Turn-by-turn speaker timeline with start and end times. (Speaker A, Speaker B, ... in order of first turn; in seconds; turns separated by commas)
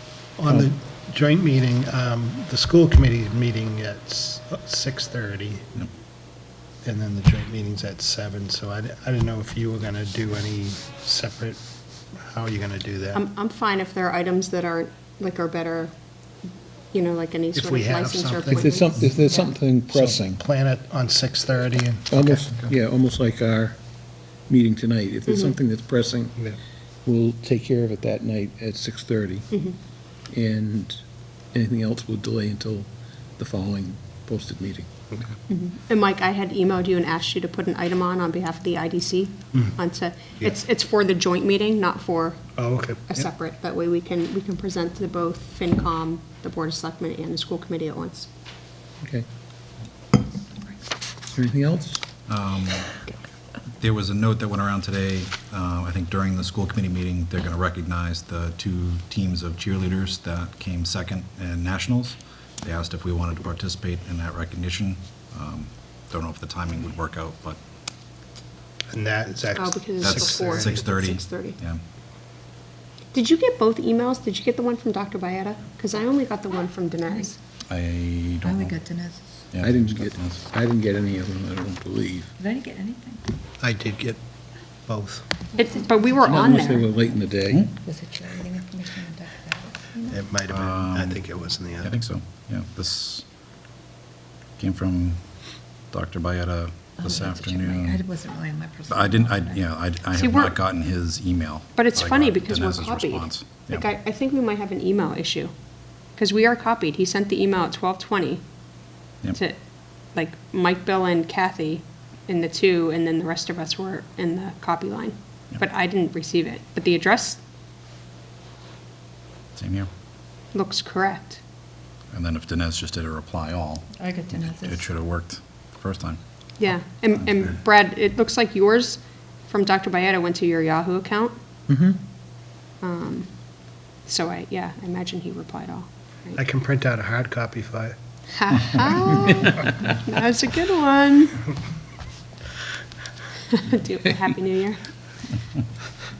Speaker A: 0.4-5.7, Speaker B: 0.4-0.7, Speaker A: 6.8-11.6, Speaker A: 12.2-13.2, Speaker C: 13.1-15.9, Speaker C: 16.9-19.5, Speaker A: 17.5-19.1, Speaker B: 18.5-20.4, Speaker A: 19.9-22.7, Speaker B: 22.1-23.8, Speaker B: 24.5-26.4, Speaker C: 25.3-25.5, Speaker B: 27.0-29.5, Speaker B: 30.3-31.0, Speaker B: 31.5-34.9, Speaker C: 35.5-48.3, Speaker A: 42.5-43.1, Speaker B: 49.0-49.2, Speaker B: 51.3-52.0, Speaker D: 52.3-53.0, Speaker D: 53.8-67.6, Speaker A: 68.9-70.8, Speaker C: 69.5-71.6, Speaker D: 70.0-71.8, Speaker C: 73.1-77.4, Speaker D: 77.7-78.8, Speaker E: 78.4-79.3, Speaker D: 79.5-80.4, Speaker B: 79.6-82.3, Speaker E: 82.4-83.3, Speaker A: 83.6-84.2, Speaker A: 84.9-85.2, Speaker C: 85.5-86.9, Speaker E: 85.6-86.8, Speaker B: 86.2-87.7, Speaker E: 87.8-90.2, Speaker A: 90.1-91.9, Speaker D: 90.5-91.2, Speaker D: 91.8-93.2, Speaker D: 94.6-95.2, Speaker D: 95.9-98.0, Speaker E: 97.0-99.6, Speaker D: 98.9-103.8, Speaker C: 100.1-100.6, Speaker C: 101.8-105.5, Speaker C: 106.2-108.4, Speaker C: 110.1-117.4, Speaker D: 119.6-119.9, Speaker C: 120.5-121.4, Speaker D: 122.1-126.2, Speaker E: 124.0-124.8, Speaker C: 126.6-131.4, Speaker B: 131.7-132.0, Speaker C: 132.8-133.3, Speaker C: 134.1-136.4, Speaker A: 136.3-137.9, Speaker C: 138.4-141.4, Speaker C: 143.5-144.8